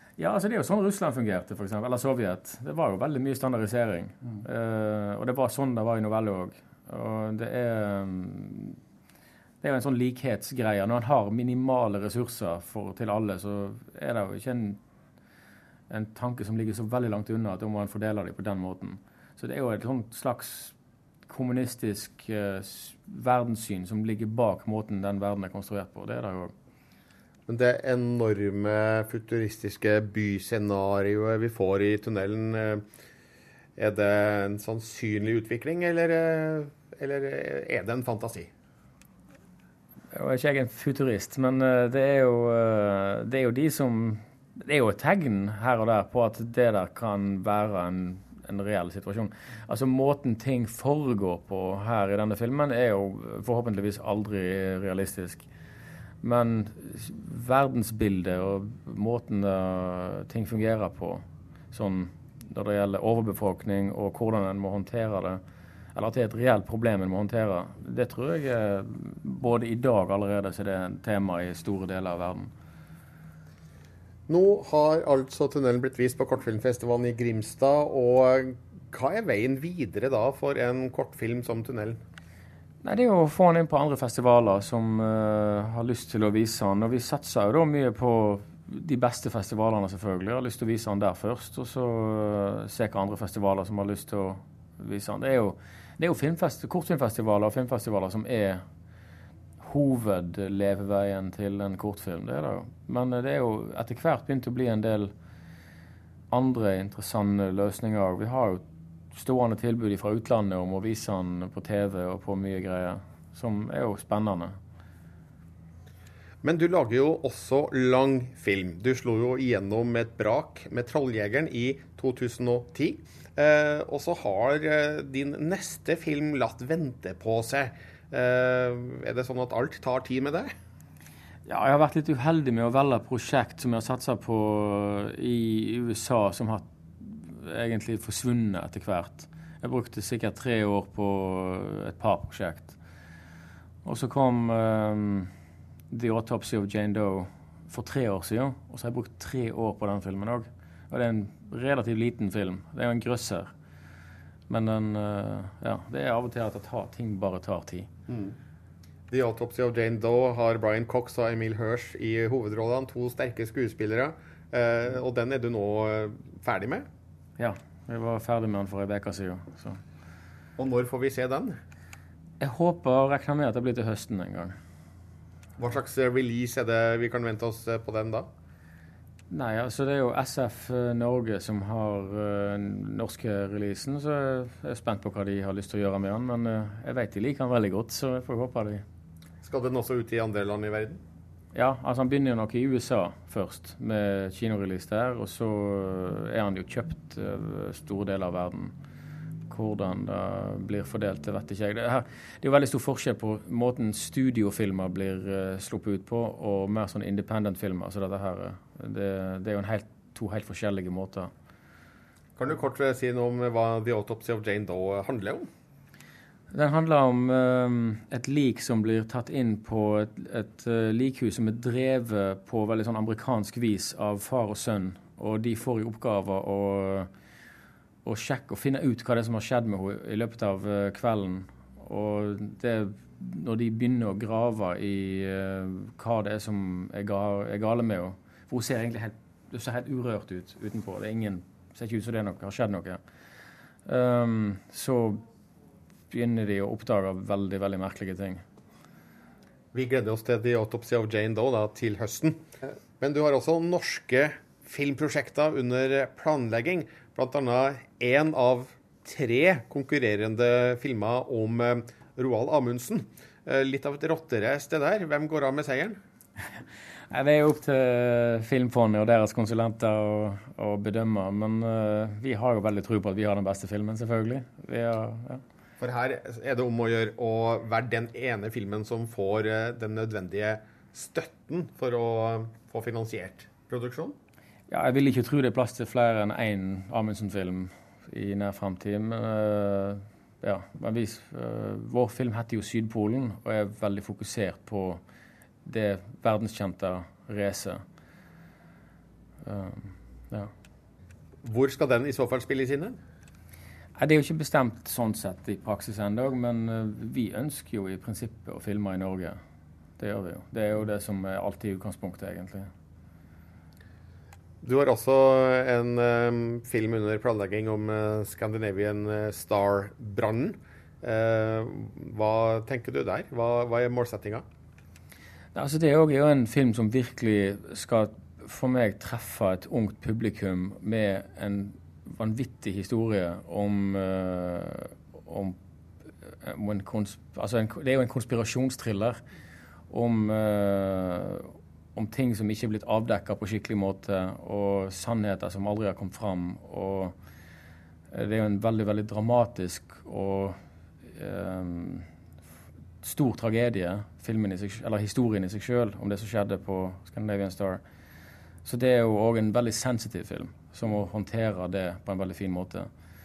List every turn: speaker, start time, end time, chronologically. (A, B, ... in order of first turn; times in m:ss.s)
0:00.2-0:08.8 A
0:09.6-0:14.8 A
0:15.9-0:20.8 A
0:21.3-0:26.5 A
0:27.5-0:32.8 B
0:33.8-0:38.5 B
0:40.1-0:55.5 A
0:56.2-1:05.4 A
1:06.0-1:12.5 A
1:14.3-1:22.0 B
1:22.8-1:38.6 A
1:39.6-1:45.1 A
1:46.3-1:54.6 A
1:56.4-2:10.5 B
2:11.5-2:22.8 A
2:23.8-2:25.3 A
2:25.9-2:33.5 A
2:34.5-2:37.9 A
2:38.1-2:38.4 B
2:39.1-2:46.9 B
2:47.4-2:49.8 A
2:50.6-2:51.6 B
2:52.4-2:54.6 A
2:55.6-2:58.3 B
2:59.3-3:08.8 A
3:09.4-3:11.0 B
3:11.5-3:18.7 A
3:19.5-3:31.3 A
3:32.4-3:35.5 B
3:36.5-3:47.1 A
3:48.0-4:03.0 A
4:03.9-4:05.2 A
4:06.1-4:08.4 A
4:09.7-4:26.0 B
4:27.1-4:35.4 A
4:35.8-4:44.2 B
4:44.7-4:55.0 A
4:55.6-4:57.8 A
4:59.4-5:00.5 A
5:01.4-5:03.0 B
5:04.0-5:09.4 A
5:10.0-5:12.7 A
5:14.6-5:24.4 B
5:25.6-5:35.6 A
5:36.4-5:39.2 A
5:39.9-5:47.2 A
5:48.1-5:52.1 A
5:53.0-5:57.8 A
5:58.6-6:02.9 A